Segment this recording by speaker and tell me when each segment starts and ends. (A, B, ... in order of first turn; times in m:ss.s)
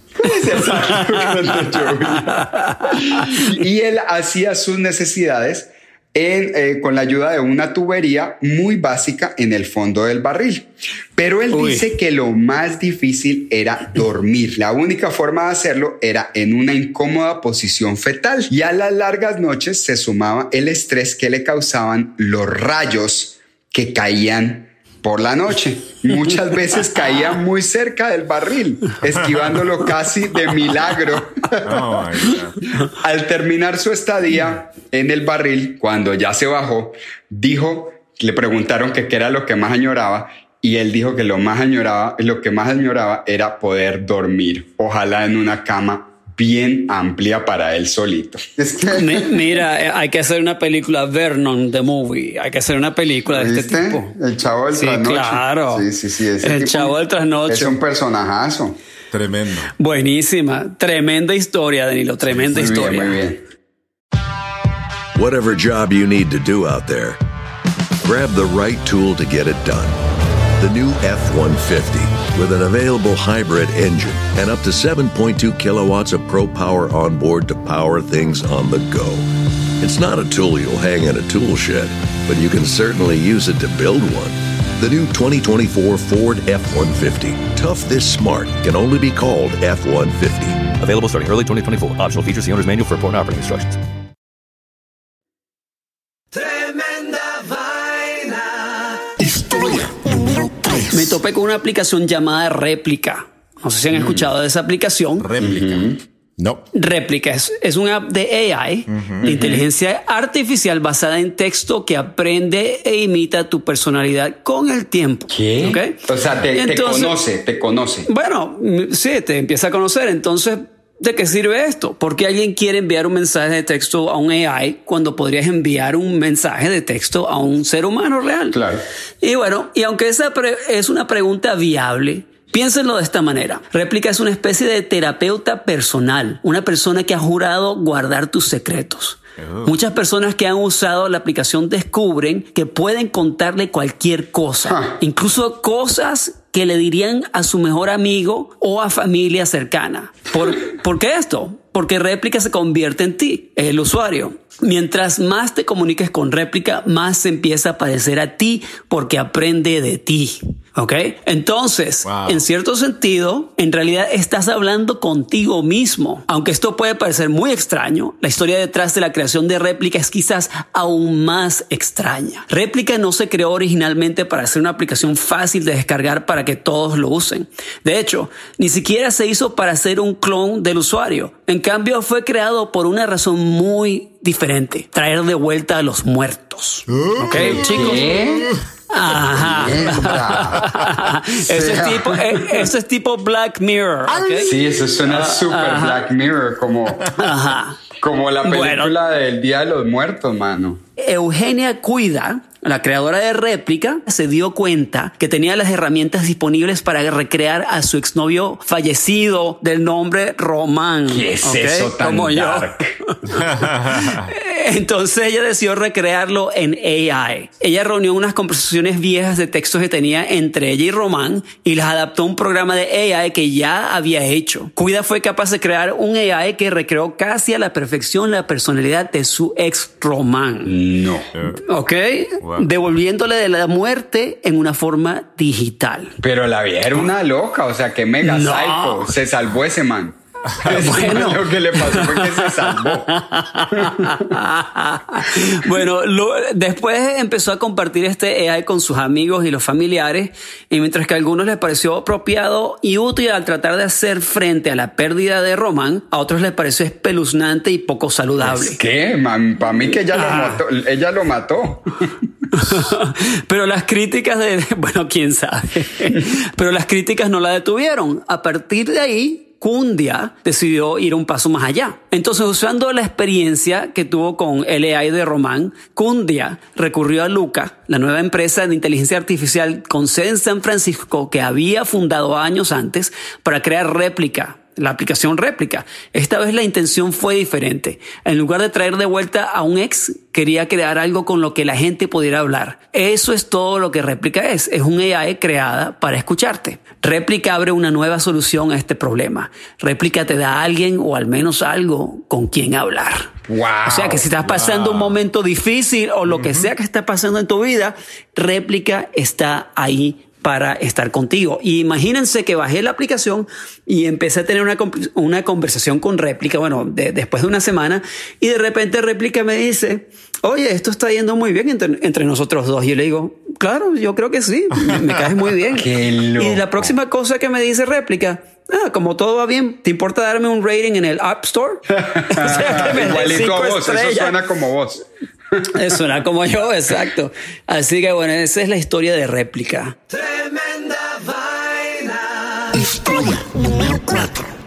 0:00.2-0:49.6 A
0:02.4-0:03.3 B
0:11.5-0:11.9 B
0:31.6-0:32.7 C
0:48.9-0:54.1 B
0:53.3-0:58.8 A
0:54.7-0:55.9 B
0:56.4-0:57.7 B
0:59.1-0:59.7 C
0:59.8-1:03.2 B
1:02.5-1:03.4 A
1:05.1-1:07.2 D
1:08.0-1:10.0 D
1:10.6-1:19.2 D
1:19.8-1:30.7 D
1:30.8-1:33.8 E
1:39.2-1:41.0 C
1:40.9-1:45.3 B
1:43.9-1:44.2 A
1:45.2-1:46.6 C
1:45.4-1:46.0 A
1:46.7-1:56.0 B
1:48.9-1:49.2 C
1:49.2-1:49.6 A
1:55.3-1:58.1 A
1:56.5-1:57.2 B
1:58.1-2:08.6 B
2:08.5-2:08.8 A
2:09.2-3:08.2 B
2:19.4-2:19.7 C
2:24.7-2:24.9 A
2:42.0-2:42.4 C
3:07.0-3:08.6 C
3:07.3-3:08.5 A
3:08.9-3:14.5 B
3:09.3-3:10.7 A
3:11.4-3:12.6 A
3:14.1-3:14.5 C
3:14.4-3:17.2 A
3:15.1-3:16.0 B
3:17.1-3:17.8 B
3:18.0-3:20.8 A
3:18.4-3:19.0 B
3:21.0-3:50.8 B
3:31.1-3:32.9 A
3:33.3-3:34.3 C
3:50.6-3:51.3 A
3:51.3-3:51.6 C
3:51.6-3:56.2 B
3:52.4-3:52.7 C
3:56.2-4:03.2 A
3:58.2-3:59.1 B
4:00.6-4:18.8 B
4:03.7-4:04.3 A
4:18.4-4:22.2 A
4:20.1-4:20.6 B
4:22.5-5:03.3 B
5:03.5-5:04.2 A
5:03.8-5:34.4 B
5:04.4-5:05.2 C
5:06.3-5:06.7 C
5:24.8-5:25.1 C
5:25.7-5:27.0 A
5:31.9-5:35.7 A
5:35.7-5:40.0 B